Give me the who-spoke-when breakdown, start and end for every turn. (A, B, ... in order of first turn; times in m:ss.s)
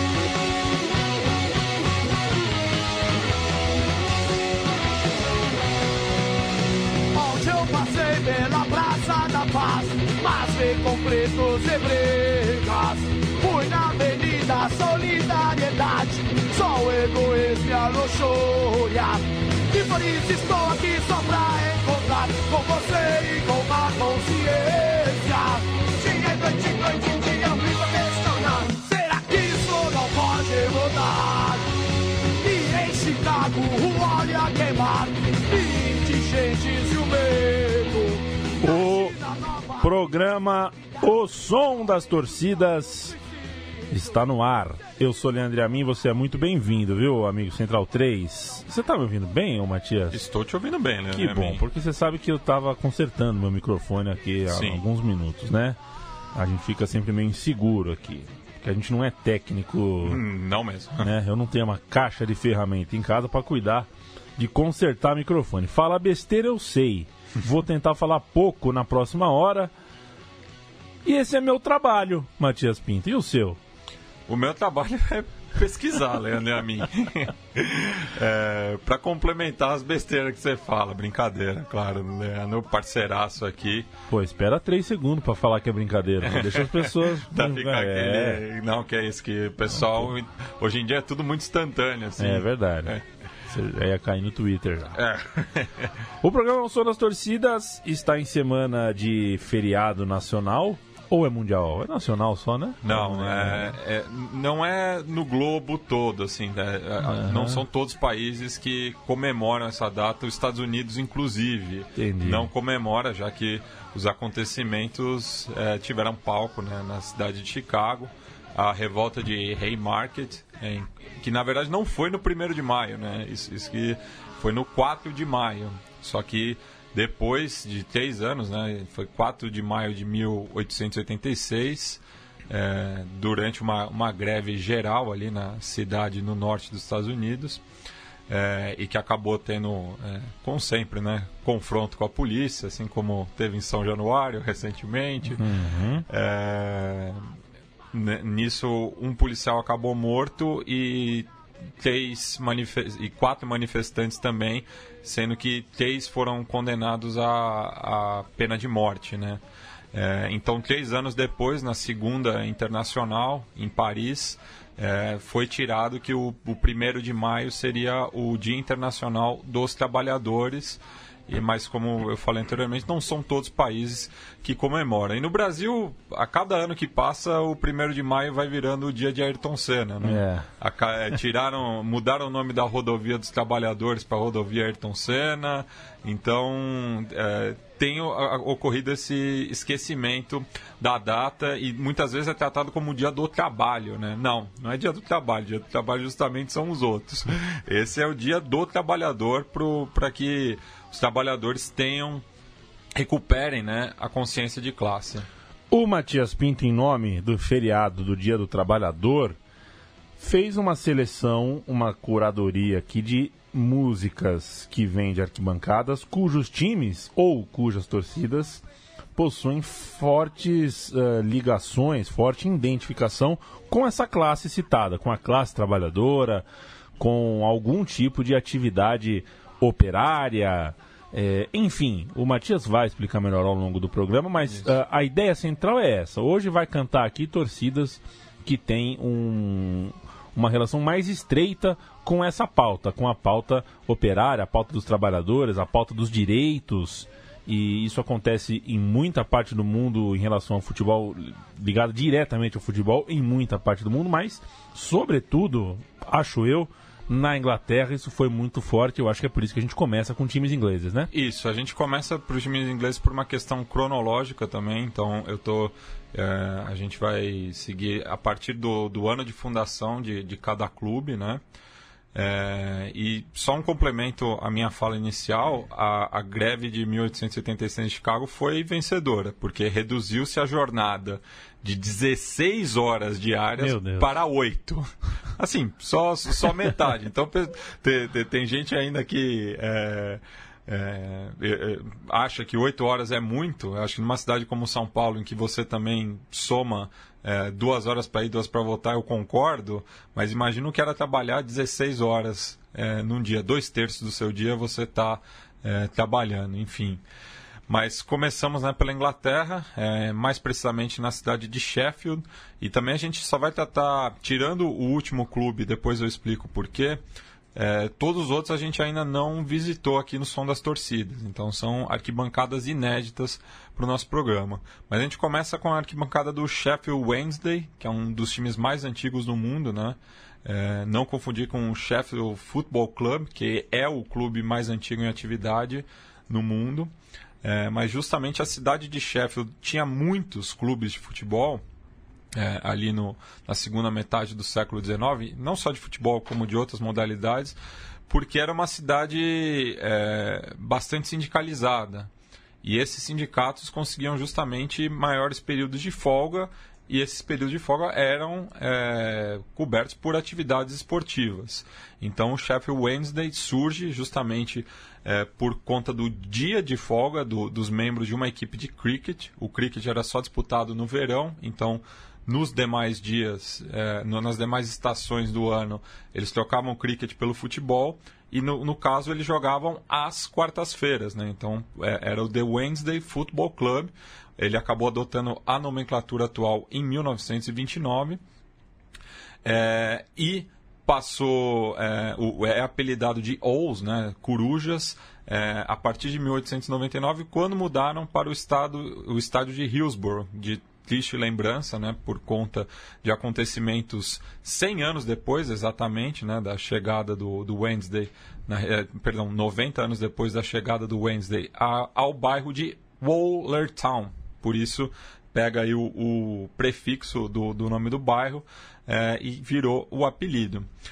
0:07.1-0:31.8 A
0:32.4-0:39.9 A
0:38.6-0:39.2 B
0:39.8-0:43.2 B
0:43.9-0:50.2 B
0:50.1-0:51.6 C
0:51.1-0:55.8 B
0:54.5-0:54.8 C
0:56.4-1:00.2 B
1:00.0-1:01.1 C
1:01.0-1:09.7 B
1:11.0-1:13.6 B
1:14.3-1:23.9 C
1:24.1-1:28.4 B
1:26.2-1:33.0 C
1:29.8-1:30.1 B
1:32.2-1:35.0 B
1:34.9-1:35.9 C
1:36.2-1:43.8 B
1:42.8-2:17.6 C
1:47.0-1:47.6 B
1:52.0-1:52.5 B
2:18.3-2:25.5 C
2:25.3-2:26.1 B
2:26.1-2:27.2 C
2:27.9-2:39.4 C
2:39.9-3:22.2 C
3:00.0-3:00.5 B
3:23.0-3:25.3 C
3:25.7-3:29.4 B
3:30.2-3:38.6 B
3:39.2-3:46.5 B
3:47.0-4:21.1 B
3:54.4-3:54.8 C
4:21.1-4:31.4 C
4:32.1-5:07.0 C
4:43.6-4:44.2 B
5:07.7-5:17.0 C
5:17.6-5:41.6 C
5:42.4-5:47.6 C
5:48.1-5:52.1 C
5:52.6-6:28.2 C
6:29.4-7:00.7 C